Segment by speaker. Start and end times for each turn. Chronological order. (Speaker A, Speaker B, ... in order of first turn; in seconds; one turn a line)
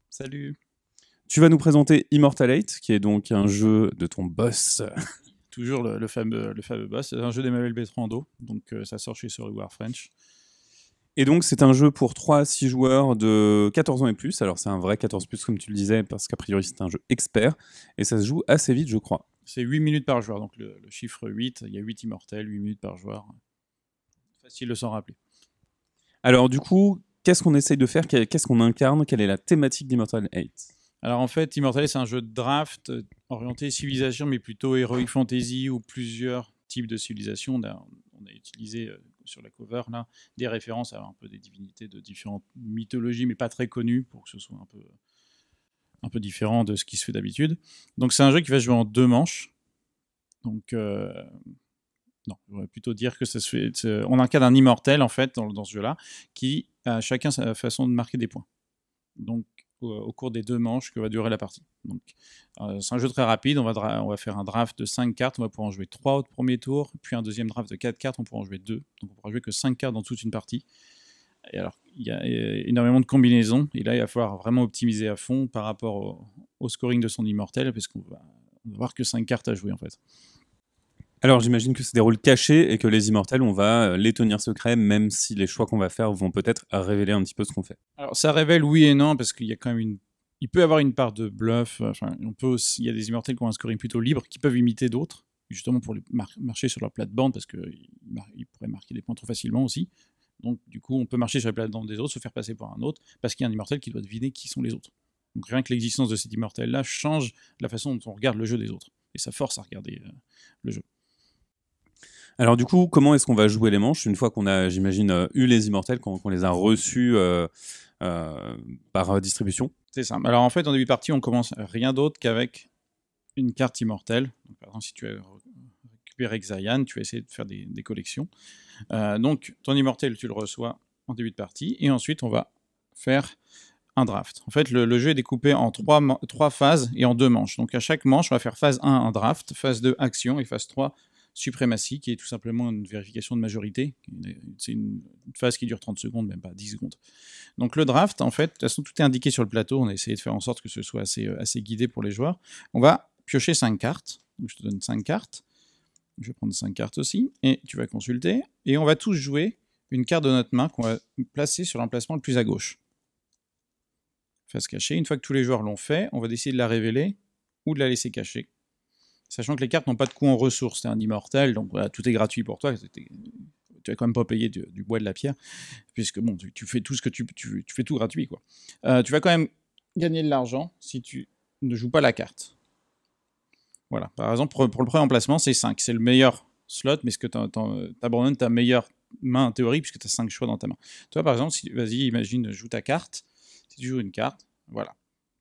Speaker A: 0.1-0.6
Speaker B: 1.3-4.9
Speaker A: 5.5-10.1
Speaker B: 11.2-19.2
Speaker A: 19.5-23.3
Speaker A: 24.4-25.1
Speaker B: 26.2-30.6
Speaker A: 31.0-44.9
Speaker A: 46.0-49.5
Speaker A: 50.4-51.4
Speaker A: 52.3-58.5
Speaker A: 59.2-70.6
Speaker A: 71.5-80.0
Speaker B: 81.2-87.8
Speaker A: 88.0-110.8
Speaker B: 112.4-117.5
Speaker B: 118.0-119.7
Speaker A: 119.9-122.7
Speaker A: 123.3-125.4
Speaker A: 126.0-128.3
Speaker A: 128.9-133.3
Speaker A: 133.9-147.0
Speaker A: 147.6-155.4
Speaker A: 156.2-162.8
Speaker A: 164.5-168.5
Speaker A: 169.3-175.3
Speaker A: 175.9-182.5
Speaker A: 183.9-194.9